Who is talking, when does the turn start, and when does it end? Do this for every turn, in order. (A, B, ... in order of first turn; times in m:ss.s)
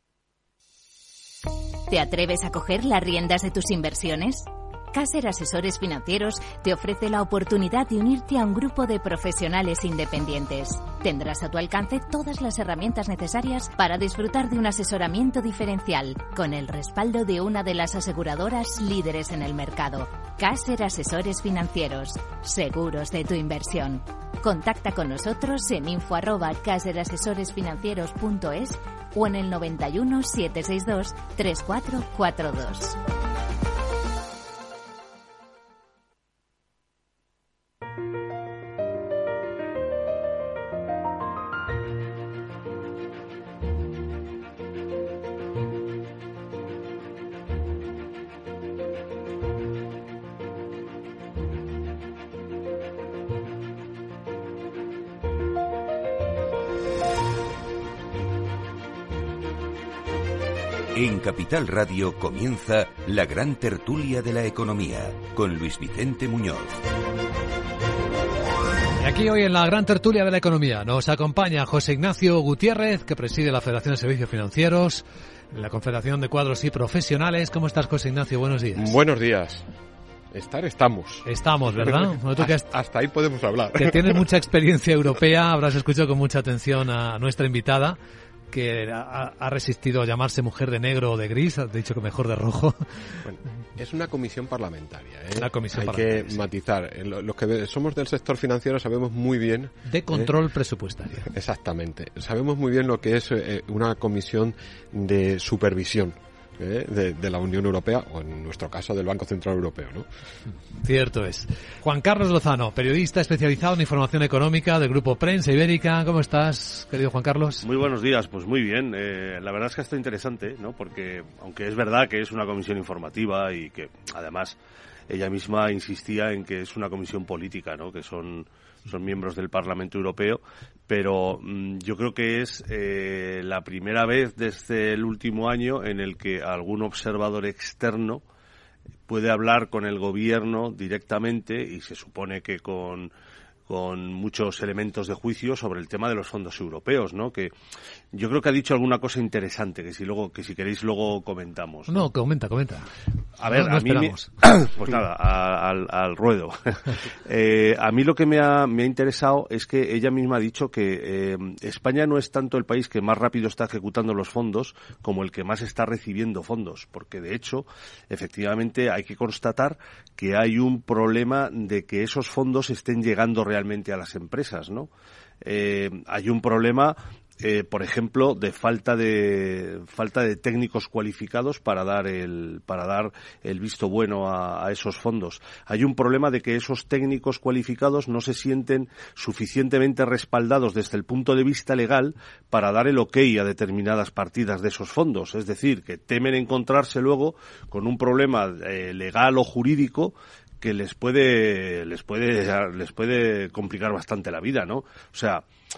0:01.9-0:33.0 A
1:00.9-1:06.8 B
1:09.0-1:19.0 C
1:18.8-1:19.7 D
1:20.3-1:24.2 D
1:21.2-1:22.7 C
1:23.8-1:28.0 C
1:28.5-1:32.8 C
1:33.2-1:40.3 D
1:35.4-1:36.4 C
1:39.9-1:41.3 C
1:41.3-1:50.1 D
1:50.8-1:57.6 C
1:57.6-2:04.6 E
2:05.1-2:18.2 E
2:19.1-2:23.1 E
2:23.7-2:27.5 E
2:28.1-2:32.0 E
2:31.9-2:32.9 C
2:33.4-2:54.9 E
2:33.5-2:34.3 C
2:55.4-3:25.4 E